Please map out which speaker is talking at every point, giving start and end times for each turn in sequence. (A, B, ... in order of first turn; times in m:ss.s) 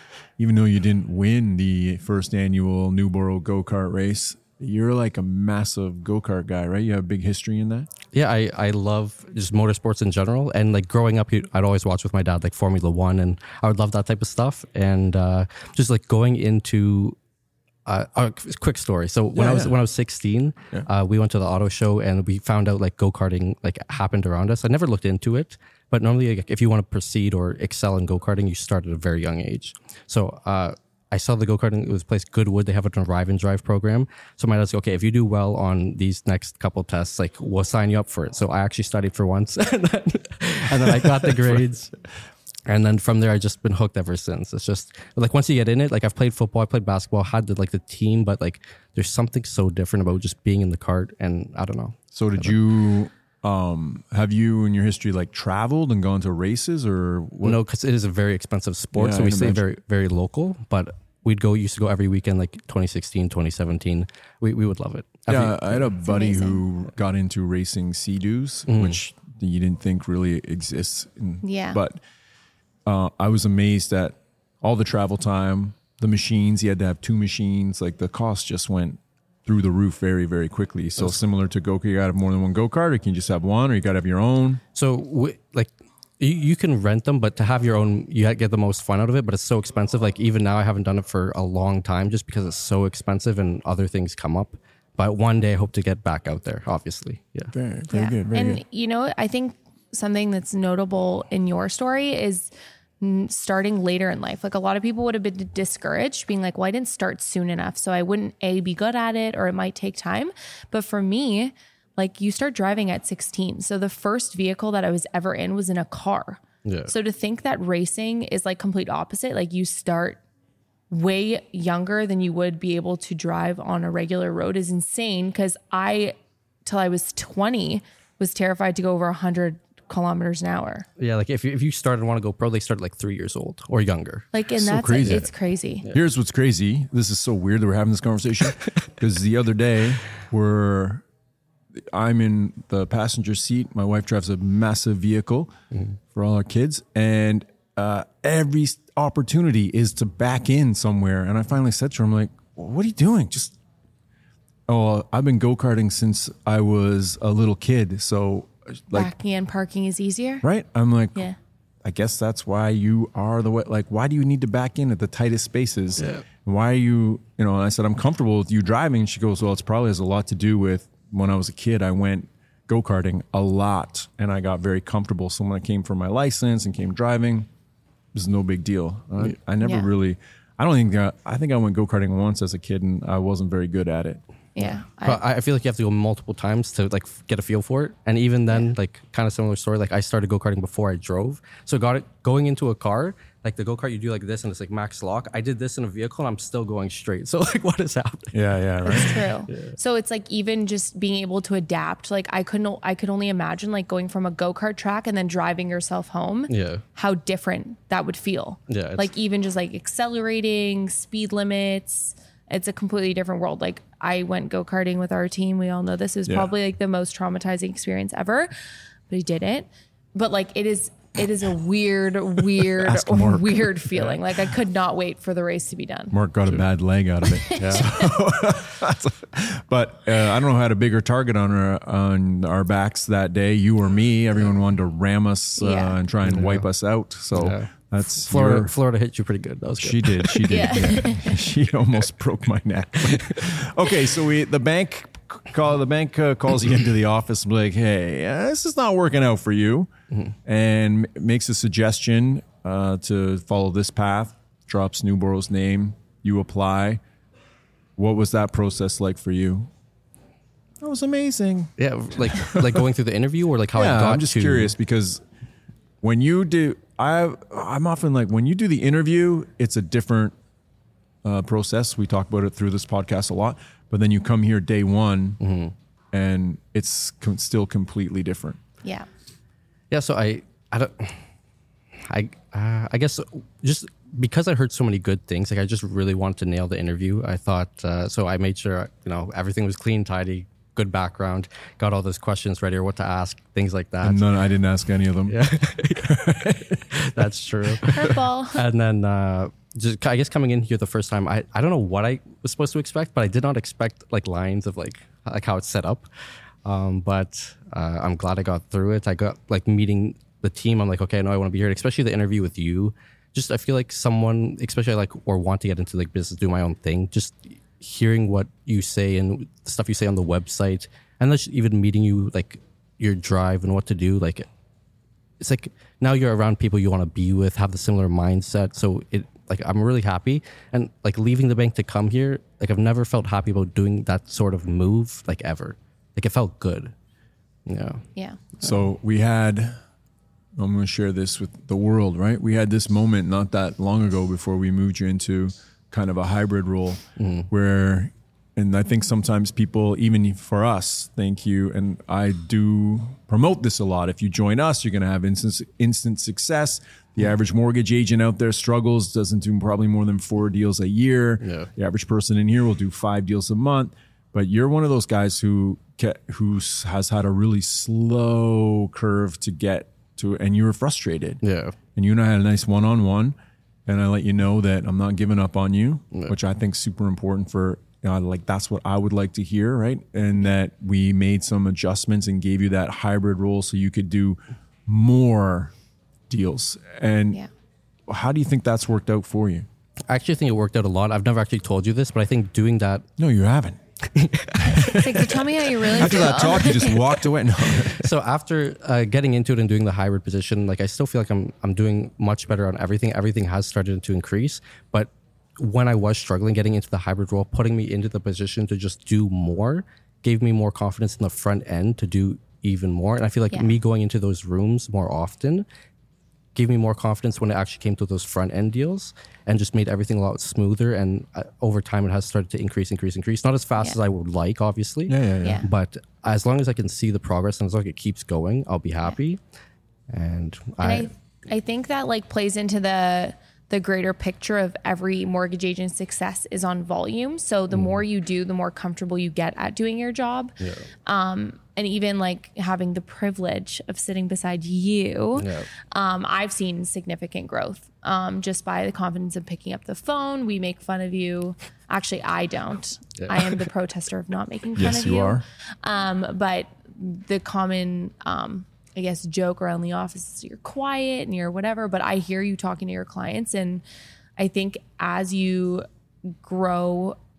0:00.4-0:07.9 A
0:08.1-0:17.2 B
0:17.8-0:41.9 B
0:19.3-0:19.7 A
0:41.2-0:41.6 A
0:42.6-0:52.6 B
0:52.1-0:57.6 A
0:57.4-1:05.8 B
0:58.9-0:59.6 A
1:05.3-1:12.0 A
1:06.0-1:06.6 C
1:08.7-1:09.0 B
1:11.4-1:11.8 C
1:12.8-1:24.6 A
1:24.7-1:37.5 B
1:37.5-1:38.6 A
1:37.9-2:00.2 C
1:56.6-1:56.9 B
2:00.9-2:06.1 C
2:06.6-2:10.8 C
2:11.0-2:14.3 B
2:14.3-2:15.8 C
2:14.6-2:15.2 A
2:15.9-2:21.0 A
2:21.8-2:25.6 A
2:26.1-2:33.6 A
2:34.7-2:39.1 A
2:38.9-2:40.4 C
2:40.4-2:41.3 A
2:41.8-2:57.5 A
2:46.0-2:46.2 B
2:58.1-3:04.2 A
2:59.6-2:59.9 C
3:04.6-3:05.2 C
3:05.0-3:18.4 B
3:18.3-3:19.3 A
3:18.8-3:38.5 C
3:19.5-3:19.7 B
3:26.5-3:26.8 B
3:28.7-3:29.1 B
3:36.2-3:36.5 A
3:39.1-3:46.1 C
3:42.6-3:44.2 A
3:46.1-3:58.7 A
3:47.3-3:48.1 C
3:47.6-3:47.8 B
3:55.6-3:56.0 C
3:56.2-3:56.6 B
3:57.3-4:01.0 B
3:59.8-4:09.9 A
4:00.5-4:01.4 C
4:03.0-4:03.5 B
4:10.4-4:17.0 A
4:18.0-4:19.7 A
4:20.8-4:22.8 A
4:21.8-4:24.7 B
4:23.7-4:25.2 A
4:26.0-4:30.3 A
4:31.2-4:35.4 A
4:35.4-4:35.7 B
4:36.1-4:38.6 A
4:39.9-4:41.2 B
4:42.0-4:54.2 B
4:54.0-4:55.4 A
4:55.3-5:06.1 B
4:55.9-4:58.1 A
4:57.9-4:58.6 C
5:06.6-5:24.5 B
5:25.4-5:36.9 B
5:37.6-5:38.0 B
5:38.6-5:39.8 A
5:40.6-6:11.4 A
5:47.2-5:47.5 B
6:01.4-6:01.7 B
6:11.4-6:11.8 B
6:11.9-6:25.7 A
6:26.3-6:27.4 A
6:28.1-6:29.7 A
6:30.1-6:33.1 B
6:33.2-6:33.8 A
6:34.1-6:37.0 B
6:34.6-6:35.0 A
6:34.6-6:37.0 C
6:35.9-6:38.1 A
6:37.8-6:55.6 B
6:56.5-7:09.4 B
7:05.1-7:05.6 A
7:10.1-7:11.1 B
7:10.8-7:20.5 C
7:17.7-7:18.0 B
7:20.6-7:20.9 B
7:21.0-7:43.8 C
7:25.4-7:25.7 B
7:33.2-7:33.5 B
7:34.8-7:35.4 A
7:44.4-7:47.2 C